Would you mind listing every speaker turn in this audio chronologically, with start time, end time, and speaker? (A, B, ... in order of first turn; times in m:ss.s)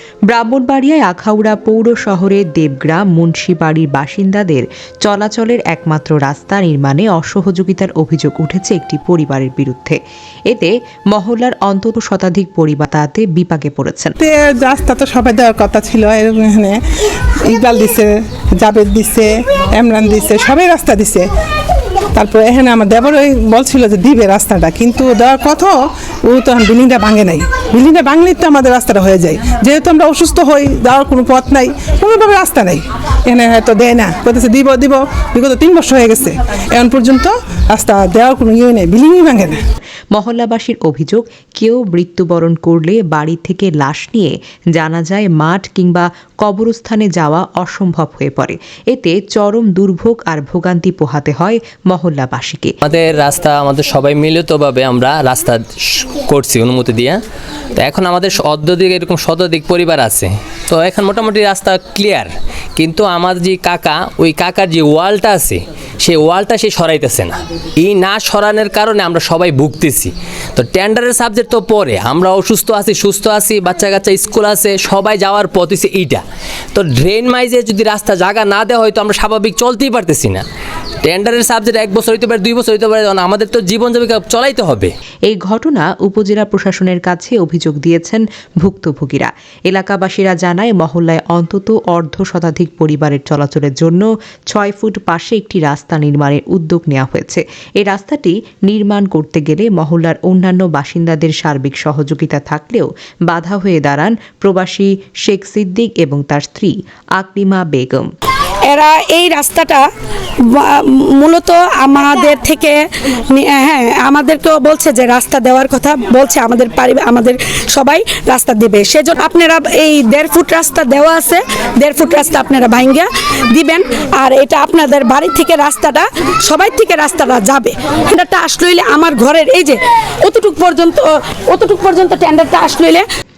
0:00.3-0:10.0 A
0:10.5-0:14.1 A
0:14.2-0:16.8 B
0:17.4-0:21.2 B
0:22.1-0:39.6 B
0:40.1-0:52.7 A
0:52.8-0:57.2 C
0:57.8-1:16.2 C
1:16.7-1:20.4 C
1:21.0-1:24.9 C
1:25.3-1:48.1 A
1:48.7-1:49.9 D
1:50.5-2:13.0 D